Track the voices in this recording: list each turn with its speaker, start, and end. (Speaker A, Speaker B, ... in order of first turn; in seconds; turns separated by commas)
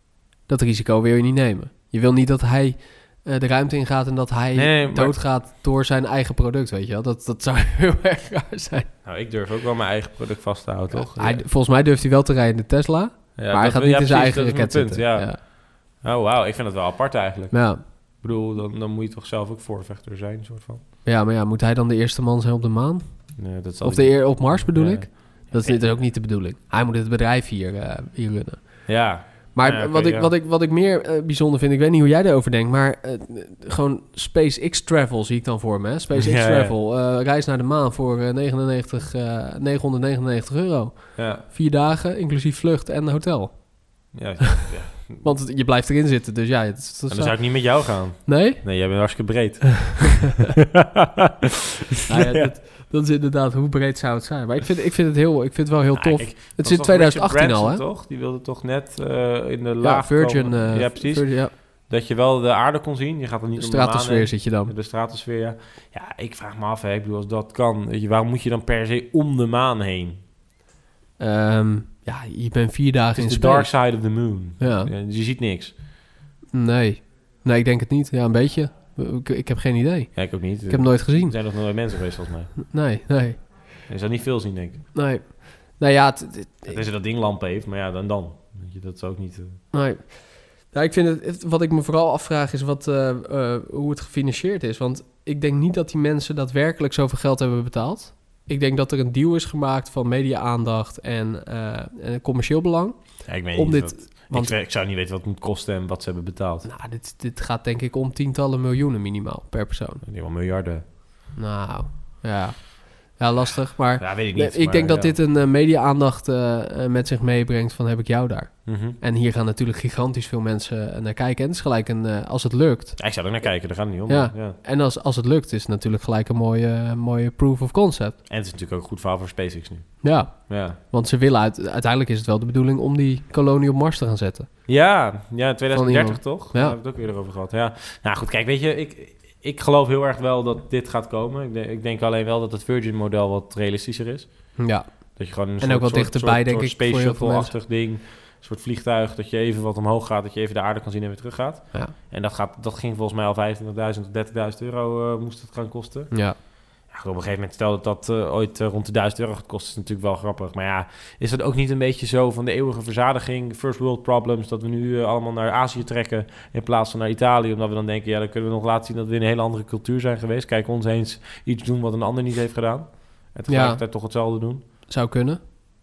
Speaker A: 0.5-8.9, Speaker B: 4.5-5.2, Speaker B: 9.0-11.4, Speaker A: 10.9-15.4, Speaker B: 13.3-20.8, Speaker A: 17.5-17.9, Speaker A: 21.0-44.1, Speaker B: 23.4-26.0, Speaker B: 28.9-30.3, Speaker B: 36.1-36.7, Speaker B: 41.2-41.4, Speaker B: 44.1-45.4, Speaker A: 45.2-49.6, Speaker B: 47.1-50.4, Speaker A: 52.1-57.8, Speaker B: 52.1-52.5, Speaker B: 55.9-70.2, Speaker A: 59.8-61.5, Speaker A: 63.6-64.7, Speaker A: 71.2-74.9, Speaker B: 73.2-75.8, Speaker A: 76.5-81.9, Speaker B: 80.1-82.7, Speaker A: 82.6-83.5, Speaker B: 83.9-84.8, Speaker A: 84.9-86.8, Speaker B: 86.7-89.6, Speaker A: 89.7-104.5, Speaker B: 103.2-106.7, Speaker A: 106.6-110.0, Speaker B: 110.0-110.8, Speaker A: 111.3-123.3, Speaker B: 114.0-115.2, Speaker B: 118.6-119.0, Speaker B: 123.0-124.6, Speaker A: 124.1-128.2, Speaker B: 128.3-130.8, Speaker A: 130.0-134.5, Speaker B: 134.7-174.6, Speaker A: 135.7-136.8, Speaker A: 144.6-147.5, Speaker A: 156.1-156.4, Speaker A: 173.5-173.8, Speaker A: 174.9-175.4